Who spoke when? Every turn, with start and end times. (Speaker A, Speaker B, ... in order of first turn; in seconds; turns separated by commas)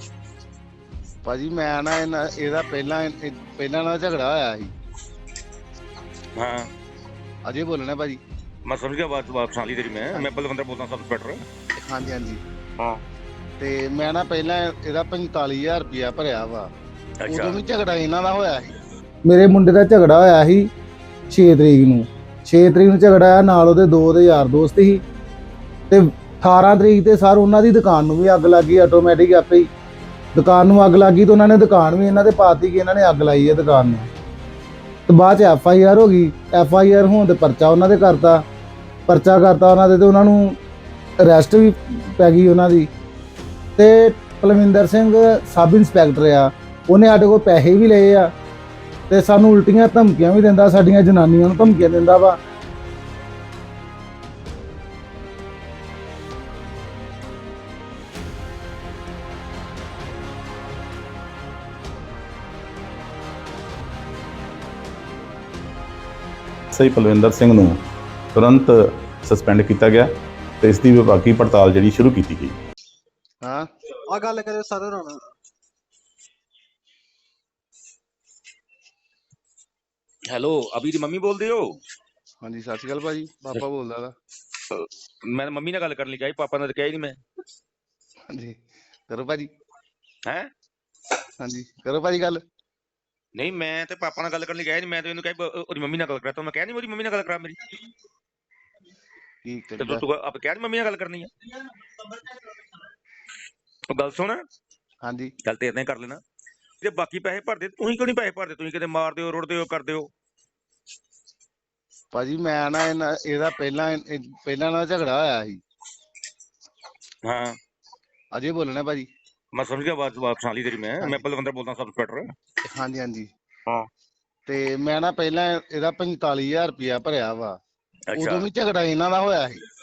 Speaker A: 1.2-4.7, Speaker B: 6.3-6.7, Speaker A: 7.4-8.2, Speaker B: 8.7-11.4, Speaker A: 11.8-12.4, Speaker A: 13.6-16.7, Speaker B: 17.2-17.6, Speaker A: 17.3-18.8, Speaker C: 19.2-20.7, Speaker C: 21.3-25.0, Speaker C: 25.9-29.7, Speaker C: 30.4-34.1, Speaker C: 35.1-38.4, Speaker C: 39.1-40.6, Speaker C: 41.2-42.9, Speaker C: 43.8-48.3, Speaker C: 49.1-52.4, Speaker D: 66.7-67.8, Speaker D: 68.3-72.6, Speaker B: 80.3-81.8, Speaker A: 82.4-84.1, Speaker B: 84.7-87.2, Speaker A: 88.3-89.5, Speaker B: 90.2-90.5, Speaker A: 91.4-92.4, Speaker B: 93.3-97.6, Speaker A: 99.4-100.0, Speaker B: 99.8-101.3, Speaker B: 103.9-104.4, Speaker A: 105.0-105.3, Speaker B: 105.4-106.2, Speaker B: 106.8-110.1, Speaker A: 112.1-115.6, Speaker B: 117.2-117.6, Speaker A: 118.3-119.1, Speaker B: 119.5-122.3, Speaker A: 122.7-123.3, Speaker A: 124.5-127.6, Speaker B: 128.1-128.5, Speaker A: 128.1-129.6